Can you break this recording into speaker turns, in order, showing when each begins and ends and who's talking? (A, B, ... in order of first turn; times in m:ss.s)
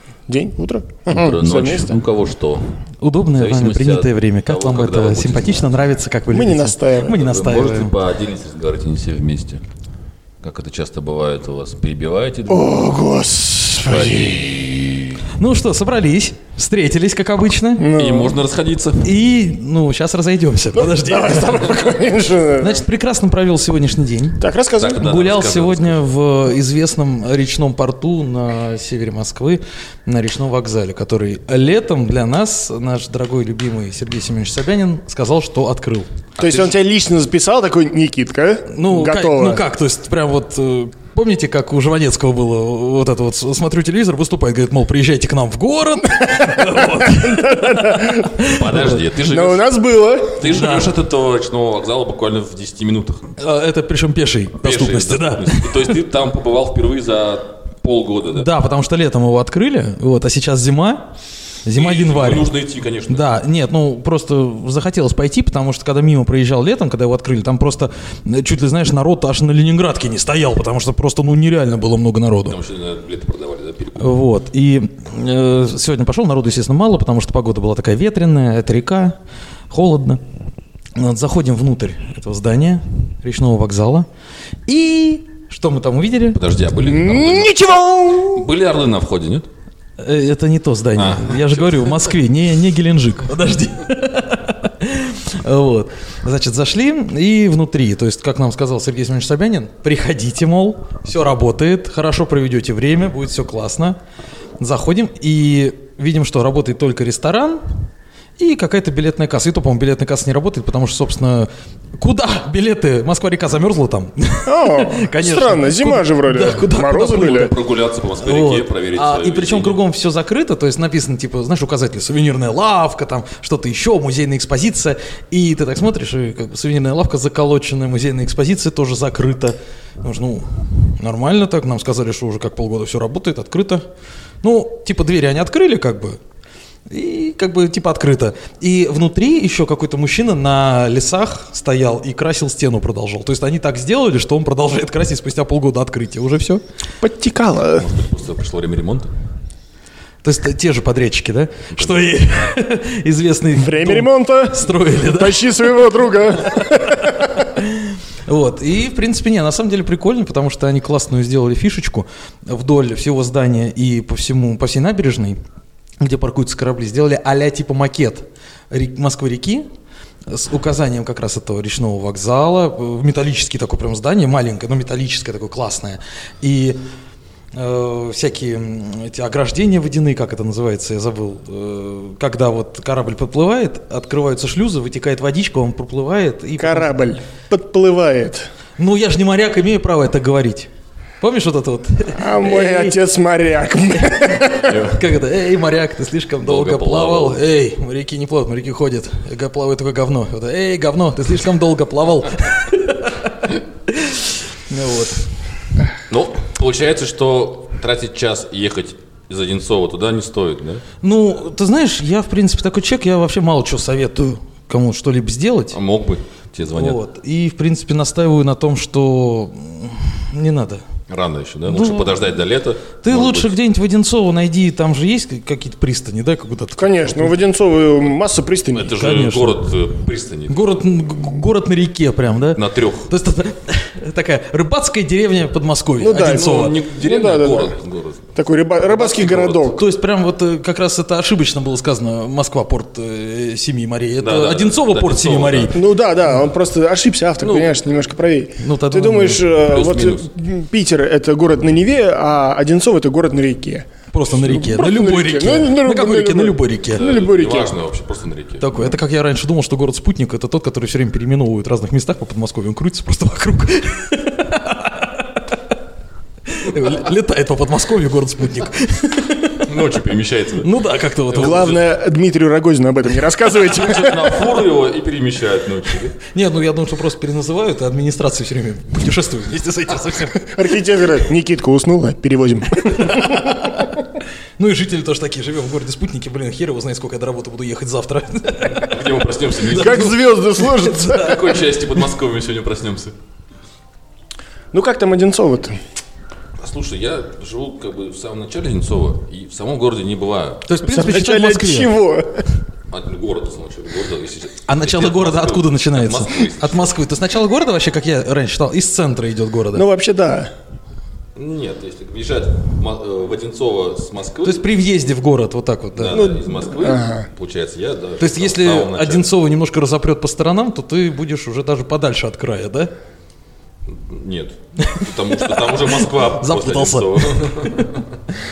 0:00.3-0:02.0 A
0:01.1-0:02.7 B
0:03.0-0:08.0 C
0:03.3-0:05.8 B
0:06.3-0:07.2 A
0:07.1-0:09.6 B
0:10.4-0:12.7 B
0:12.5-0:14.5 A
0:13.8-0:15.2 B
0:15.4-0:17.9 C
0:17.8-0:18.4 A
0:18.0-0:19.1 B
0:19.0-0:21.7 C
0:20.7-0:22.8 A
0:22.6-0:24.4 C
0:24.4-0:25.0 A
0:24.8-0:26.0 B
0:25.0-0:36.1 C
0:36.4-0:36.7 B
0:36.4-0:39.6 A
0:38.7-0:49.0 C
0:46.2-0:48.4 A
0:48.4-0:49.7 B
0:49.3-0:50.4 A
0:50.3-0:53.3 B
0:50.4-0:50.9 C
0:53.4-0:55.9 C
0:54.6-0:58.5 B
0:58.3-1:01.1 C
1:01.6-1:02.5 C
1:01.7-1:03.3 B
1:03.1-1:12.6 C
1:12.4-1:14.1 B
1:14.0-1:19.2 C
1:19.7-1:20.2 C
1:21.0-1:24.1 C
1:24.7-1:26.4 C
1:26.3-1:29.5 B
1:26.8-1:28.4 A
1:30.0-1:44.0 C
1:30.9-1:32.1 B
1:44.6-1:47.8 C
1:48.4-1:57.5 C
1:54.4-1:57.5 A
1:57.3-1:59.8 B
1:58.2-2:13.8 C
2:14.4-2:16.2 C
2:16.9-2:26.6 C
2:27.0-2:27.9 A
2:27.8-2:29.1 B
2:30.2-2:35.7 C
2:31.7-2:32.1 B
2:33.5-2:37.4 A
2:36.6-2:45.4 C
2:46.0-2:49.7 C
2:50.3-2:56.8 C
2:57.5-3:06.9 C
3:06.6-3:08.5 A
3:08.8-3:10.7 C
3:11.2-3:13.0 C
3:12.2-3:14.8 A
3:14.6-3:15.0 B
3:14.8-3:25.2 C
3:16.4-3:17.4 B
3:26.1-3:30.8 B
3:31.0-3:35.8 C
3:35.7-3:37.0 B
3:36.7-3:40.8 C
3:41.1-3:43.5 B
3:41.7-3:42.2 C
3:43.0-3:47.3 C
3:46.8-3:48.9 A
3:48.7-3:50.6 B
3:48.9-3:49.7 C
3:50.5-3:56.8 C
3:52.6-3:53.1 B
3:56.0-3:57.8 A
3:56.1-3:58.3 B
3:58.3-3:59.8 A
3:58.8-3:59.7 B
3:59.7-4:05.8 C
4:04.2-4:05.8 B
4:05.7-4:17.8 A
4:07.4-4:07.8 B
4:08.6-4:09.4 C
4:09.6-4:10.3 B
4:14.1-4:17.0 C
4:16.9-4:18.6 B
4:18.6-4:25.4 C
4:26.5-4:29.7 C
4:29.6-4:30.7 B
4:30.6-4:31.8 C
4:31.3-4:31.8 B
4:31.3-4:34.5 A
4:33.5-4:36.2 B
4:36.3-4:40.4 C
4:40.4-4:43.8 A
4:42.9-4:43.9 C
4:44.6-4:49.0 C
4:48.7-4:50.2 B
4:49.6-4:51.6 C
4:49.7-4:51.4 A
4:51.0-4:53.1 B
4:54.7-4:55.8 A
4:56.6-5:00.6 B
5:00.7-5:01.9 C
5:00.8-5:02.5 A
5:02.9-5:06.9 B
5:04.6-5:09.8 C
5:09.7-5:10.5 A
5:11.3-5:14.6 B
5:14.4-5:16.2 C
5:16.0-5:19.3 B
5:16.1-5:17.3 A
5:18.2-5:22.9 C
5:23.8-5:28.0 B
5:24.8-5:28.0 C